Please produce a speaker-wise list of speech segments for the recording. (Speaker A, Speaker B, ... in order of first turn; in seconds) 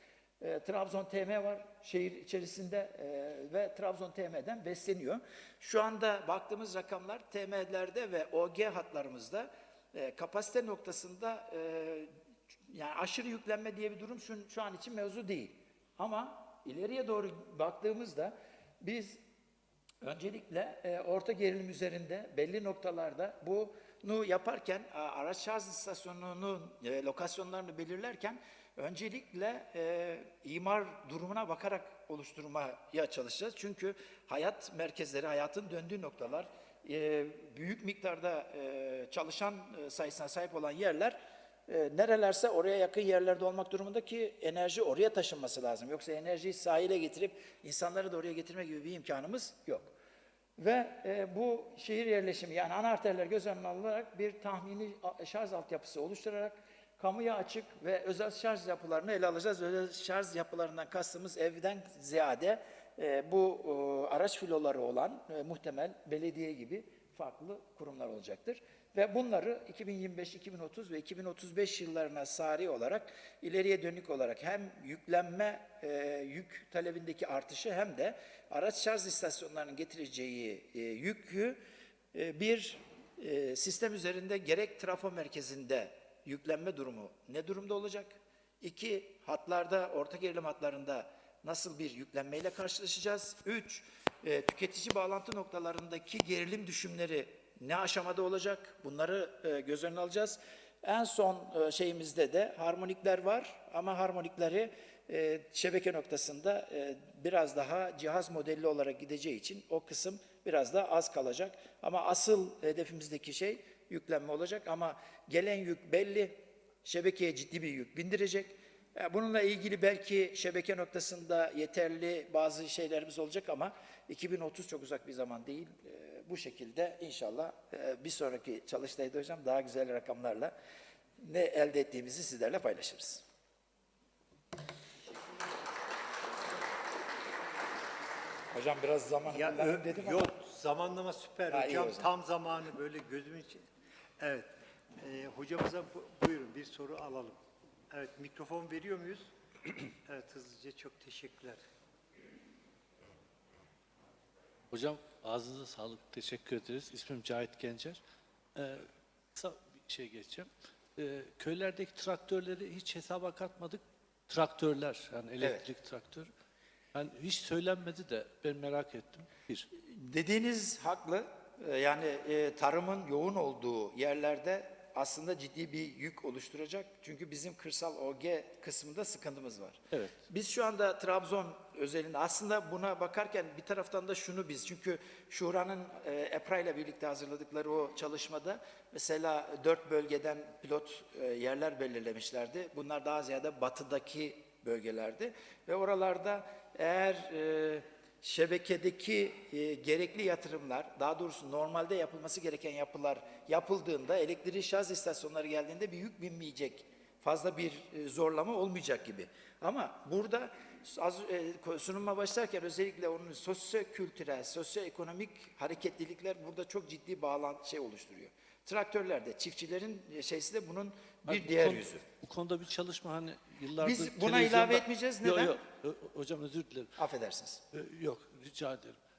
Speaker A: 0.4-12.1, 12.7-19.2, 20.0-41.1, 41.7-49.9, 50.6-81.6, 82.1-130.5, 131.2-133.2, 138.5-140.3, 141.5-142.1, 169.7-222.0, 223.8-225.6, 227.0-227.6
Speaker B: 139.3-143.6, 144.2-147.4, 147.9-149.3, 150.0-151.6
Speaker C: 154.7-158.0, 158.5-166.3, 166.9-169.7, 221.3-226.9, 227.7-229.0